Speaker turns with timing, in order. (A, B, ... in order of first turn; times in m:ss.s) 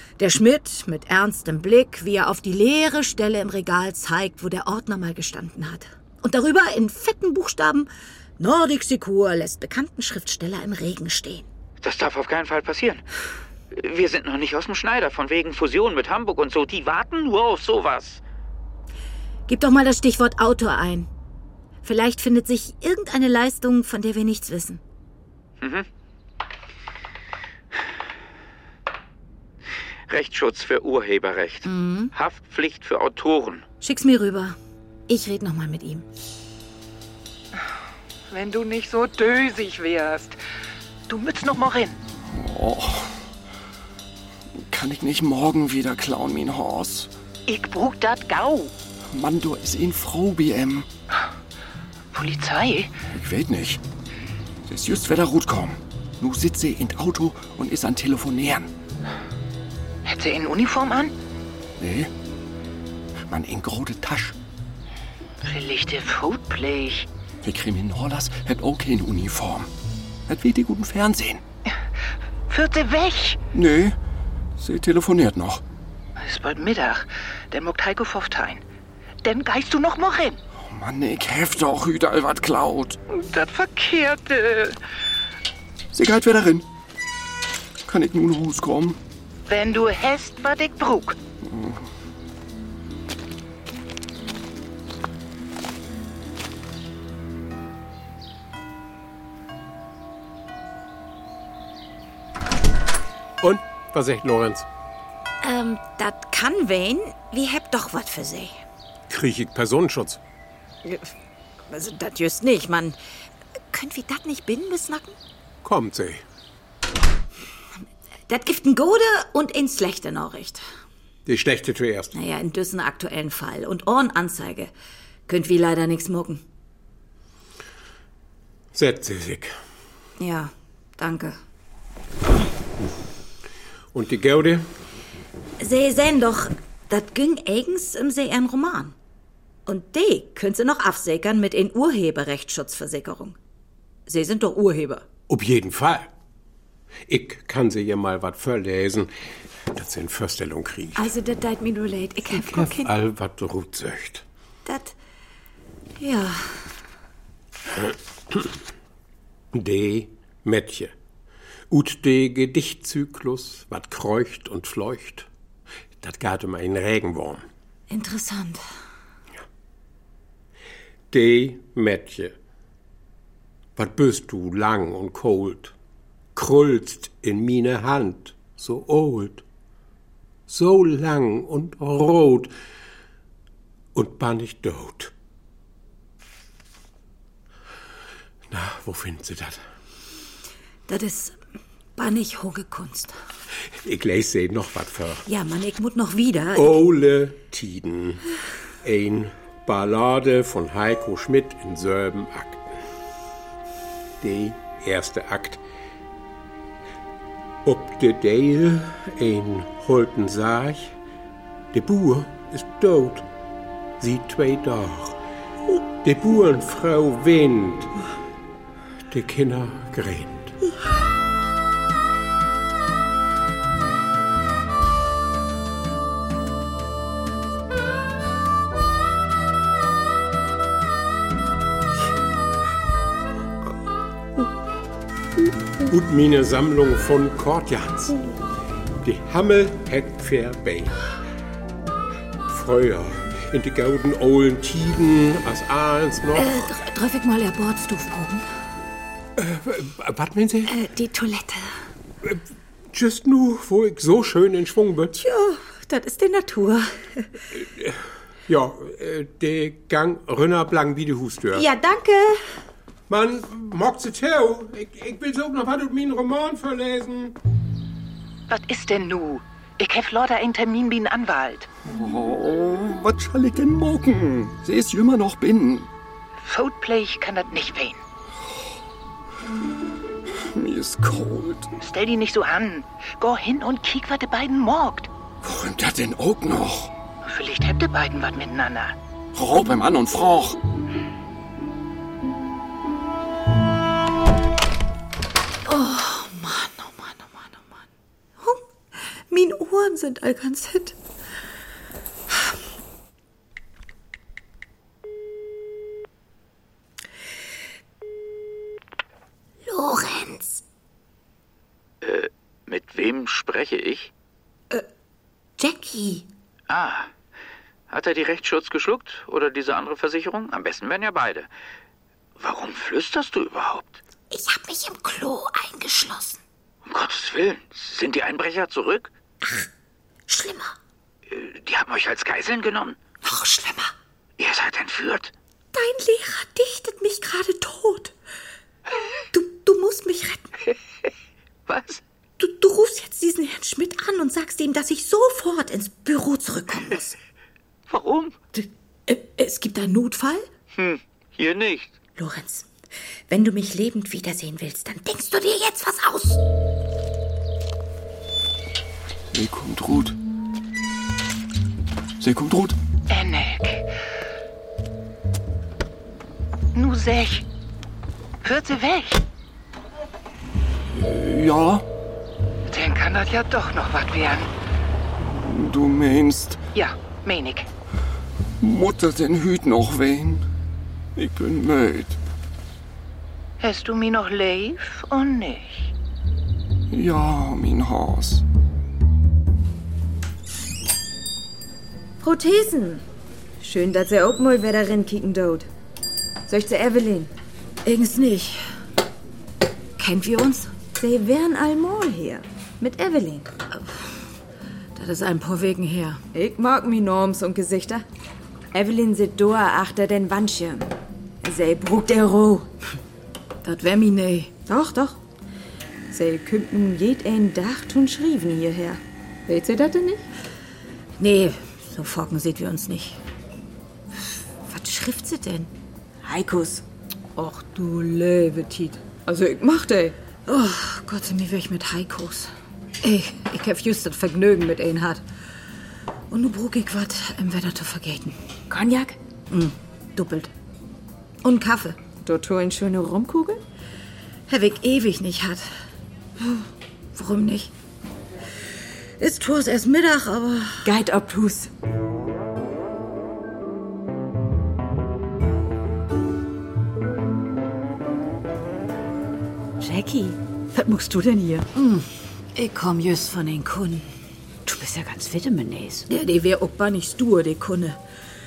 0:00.2-0:07.9 A
0:08.4-0:11.4 A
0:11.8-0:13.0 B
0:13.7-0:18.2 B
0:19.5-0:21.1 A
0:21.8-0:24.8 A
0:25.6-0:25.9 B
0:30.1-0:33.6 B
0:31.6-0:32.1 A
0:33.8-0:34.6 A
0:35.1-0:36.0 A
0:38.3-0:40.4 C
0:41.1-0:42.0 C
0:42.2-0:43.1 D
0:44.6-0:47.1 D
0:47.5-0:48.7 C
0:49.1-0:50.9 D
0:52.1-0:53.0 C
0:53.1-0:53.8 D
0:54.7-0:58.7 D
1:00.0-1:01.1 C
1:01.8-1:02.1 D
1:03.3-1:04.4 D
1:05.4-1:07.1 C
1:07.4-1:09.7 D
1:10.3-1:11.4 D
1:12.5-1:13.4 C
1:13.5-1:14.0 D
1:14.6-1:15.6 D
1:16.2-1:18.6 C
1:19.2-1:20.4 C
1:20.6-1:23.0 D
1:23.1-1:24.8 C
1:25.9-1:26.7 D
1:27.8-1:29.0 D
1:29.5-1:31.2 C
1:31.4-1:31.8 D
1:43.4-1:44.6 E
1:45.4-1:48.6 A
1:49.1-1:50.2 E
1:50.8-1:51.1 A
1:51.7-1:53.0 A
1:53.7-1:55.2 A
1:55.6-1:56.2 E
1:58.3-2:00.6 A
2:01.2-2:02.1 E
2:02.1-2:04.7 A
2:05.3-2:06.4 A
2:08.7-2:09.5 E
2:10.2-2:11.4 A
2:13.9-2:14.7 E
2:15.6-2:18.9 A
2:19.6-2:23.4 A
2:24.1-2:25.0 A
2:25.3-2:26.1 E
2:27.1-2:29.1 E
2:29.7-2:31.1 E
2:31.0-2:32.9 A
2:32.3-2:34.2 E
2:34.6-2:35.0 A
2:36.0-2:36.6 A
2:37.8-2:38.5 E
2:39.5-2:40.9 E
2:41.7-2:45.3 E
2:46.0-2:47.4 E
2:47.9-2:48.6 A
2:51.1-2:52.3 E
2:53.8-2:55.7 E
2:56.3-2:59.4 E
3:00.5-3:02.5 E
3:03.9-3:05.1 E
3:08.5-3:09.6 E
3:10.9-3:11.4 A
3:12.0-3:13.2 A
3:13.8-3:15.2 E
3:15.2-3:16.7 A
3:16.5-3:18.2 E
3:18.8-3:22.8 E
3:24.2-3:25.6 E
3:27.6-3:30.9 E
3:31.7-3:33.2 E
3:34.0-3:35.2 E
3:36.0-3:38.0 E
3:39.1-3:40.5 E
3:55.8-3:58.2 E
3:59.0-4:01.0 E
4:02.5-4:06.7 E
4:06.3-4:08.5 A
4:09.4-4:10.8 E
4:10.7-4:11.7 A
4:12.2-4:15.2 E
4:15.1-4:17.3 A
4:17.6-4:21.6 E
4:21.5-4:22.4 A
4:23.1-4:27.4 E
4:28.5-4:31.7 C
4:31.8-4:35.9 D
4:36.4-4:38.0 C
4:40.5-4:41.7 D
4:41.8-4:45.1 C
4:45.4-4:46.9 D
4:47.2-4:49.0 C
4:49.3-4:50.6 D
4:55.6-4:57.8 A
4:58.4-4:58.6 A
4:59.3-5:01.0 A
5:09.6-5:10.6 A
5:12.0-5:14.1 B
5:15.6-5:16.3 A
5:16.7-5:17.1 B
5:17.9-5:21.5 B
5:22.4-5:24.0 B
5:24.3-5:26.4 A
5:26.8-5:29.1 B
5:29.4-5:29.7 A
5:30.3-5:30.7 A
5:31.3-5:33.0 B
5:33.2-5:33.9 A
5:34.4-5:35.3 B
5:35.7-5:38.1 A
5:39.3-5:40.5 A
5:41.7-5:42.0 B
5:42.4-5:47.2 A
5:47.9-5:48.4 B
5:48.5-5:50.5 A
5:50.7-5:51.9 B
5:52.2-5:52.7 A
5:53.3-5:56.4 A
5:59.3-6:00.2 D
6:02.2-6:02.8 D
6:03.1-6:03.9 C
6:06.7-6:07.4 C
6:08.4-6:09.2 C
6:10.9-6:11.8 D
6:12.7-6:14.5 C
6:15.3-6:16.6 D
6:16.7-6:17.7 C
6:18.6-6:20.4 D
6:21.2-6:22.2 D
6:23.6-6:25.9 C
6:26.9-6:28.4 D
6:32.2-6:33.0 F
6:33.6-6:35.7 F
6:36.5-6:37.3 F
6:37.8-6:38.6 A
6:40.0-6:40.7 A
6:41.0-6:43.5 F
6:43.7-6:44.0 A
6:44.9-6:46.2 A
6:46.3-6:48.0 F
6:48.7-6:50.9 F
6:51.4-6:52.7 F
6:53.6-6:54.5 A
6:54.7-6:55.2 F
6:56.1-7:00.2 F
7:01.2-7:03.2 A
7:04.7-7:05.7 A
7:06.2-7:06.8 F
7:07.4-7:09.0 A
7:09.2-7:10.2 F
7:10.4-7:15.2 A
7:16.3-7:18.4 A
7:18.7-7:19.2 F
7:19.5-7:20.5 A
7:21.4-7:22.0 A
7:22.2-7:23.6 F
7:24.5-7:25.7 A
7:26.4-7:27.7 A
7:29.2-7:30.9 A
7:30.8-7:31.7 F
7:39.8-7:41.7 G
7:41.7-7:44.1 A
7:44.6-7:46.1 G
7:46.1-7:48.0 A